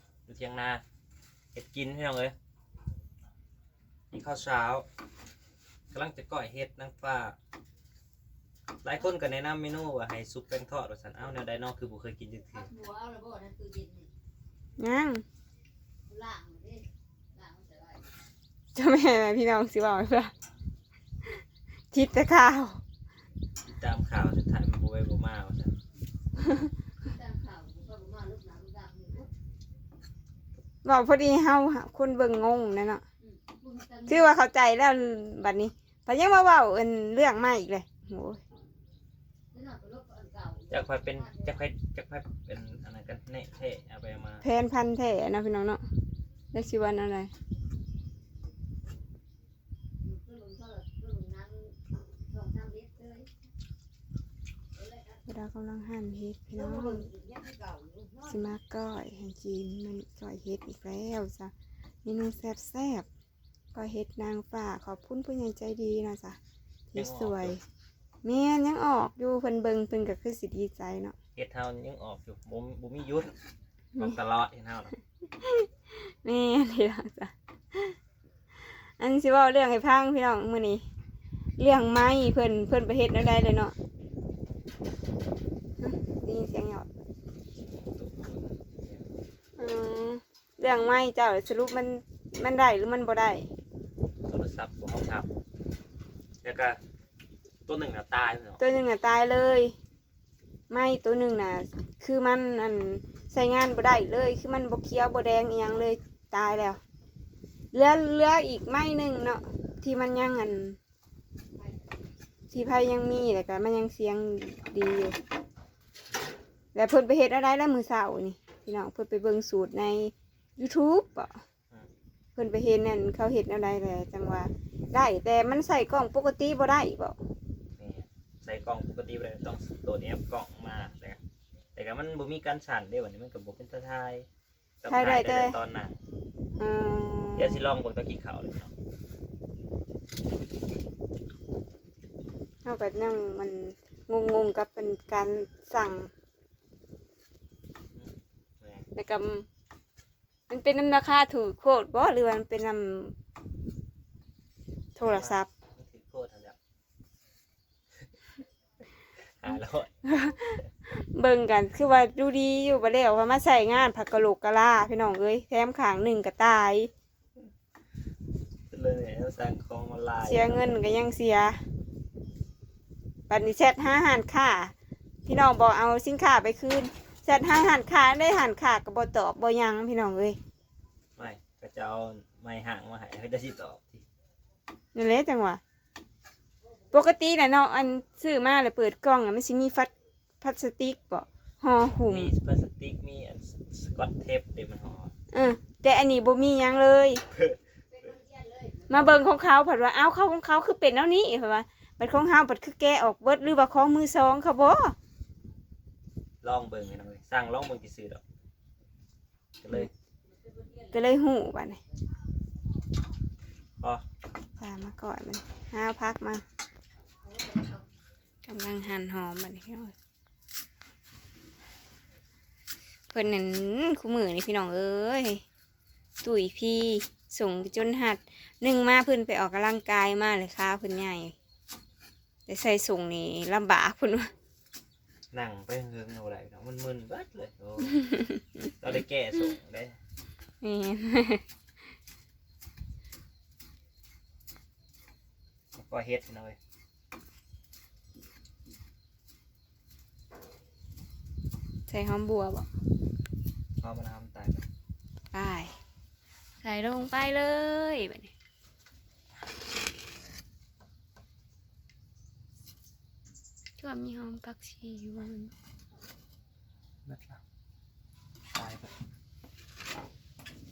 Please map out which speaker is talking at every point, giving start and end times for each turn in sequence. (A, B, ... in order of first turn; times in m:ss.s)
0:00.2-0:00.8 A
0:01.5-0:02.3 A
0:04.1-0:04.8 A
0:05.9-0:07.4 A
0:08.8-0:12.7 A
0:12.6-0:14.1 B
0:14.8-0:15.2 C
0:16.1-0:18.0 B
0:18.7-0:20.3 C
0:21.9-0:22.8 C
0:23.6-0:25.7 A
0:26.4-0:26.7 C
0:27.0-0:29.3 B
0:30.8-0:33.0 C
0:33.4-0:34.1 B
0:34.0-0:38.4 C
0:39.5-0:41.5 B
0:40.7-0:44.4 A
0:44.4-0:45.8 C
0:46.5-0:47.3 C
0:50.0-0:51.7 B
0:52.3-0:53.3 B
0:55.2-0:57.1 C
0:57.0-0:58.2 B
0:58.2-1:01.5 C
1:02.0-1:03.1 C
1:03.7-1:06.4 C
1:06.9-1:07.6 C
1:06.9-1:07.6 A
1:08.2-1:11.1 C
1:11.3-1:13.3 A
1:14.0-1:14.9 A
1:15.4-1:18.0 C
1:19.0-1:20.8 C
1:21.6-1:23.7 C
1:25.8-1:26.9 C
1:27.6-1:29.0 A
1:29.6-1:33.5 C
1:34.3-1:35.3 A
1:36.4-1:36.8 A
1:37.6-1:38.6 A
1:38.6-1:39.7 C
1:40.7-1:46.8 C
1:47.7-1:50.8 C
1:52.5-1:55.2 C
1:56.7-2:01.4 C
2:02.3-2:07.2 C
2:07.8-2:11.2 A
2:11.7-2:14.2 A
2:14.8-2:16.0 A
2:14.9-2:15.6 C
2:16.6-2:17.6 C
2:17.4-2:18.7 A
2:22.6-2:26.1 C
2:28.9-2:29.4 C
2:30.5-2:33.1 C
2:35.0-2:35.5 C
2:35.0-2:36.5 A
2:39.4-2:39.9 A
2:40.0-2:46.9 C
2:48.7-2:50.6 A
2:50.2-2:51.6 C
2:53.3-2:54.7 C
2:55.2-3:00.4 C
3:01.2-3:04.0 A
3:04.9-3:05.6 C
3:06.9-3:12.3 C
3:12.1-3:15.1 A
3:15.3-3:17.2 C
3:17.3-3:17.6 A
3:18.0-3:18.7 B
3:18.9-3:24.9 C
3:26.4-3:28.2 A
3:29.6-3:29.9 A
3:30.9-3:31.8 C
3:34.6-3:36.4 C
3:38.4-3:39.9 C
3:43.1-3:45.4 C
3:46.2-3:51.3 C
3:52.5-3:54.3 C
3:55.3-3:58.0 A
3:58.1-3:58.4 C
3:58.8-4:00.0 A
4:00.6-4:01.4 C
4:05.7-4:06.6 A
4:11.9-4:12.7 C
4:13.8-4:14.6 A
4:15.3-4:15.8 C
4:16.6-4:18.3 C
4:23.8-4:25.5 C
4:27.0-4:27.4 A
4:28.5-4:28.9 A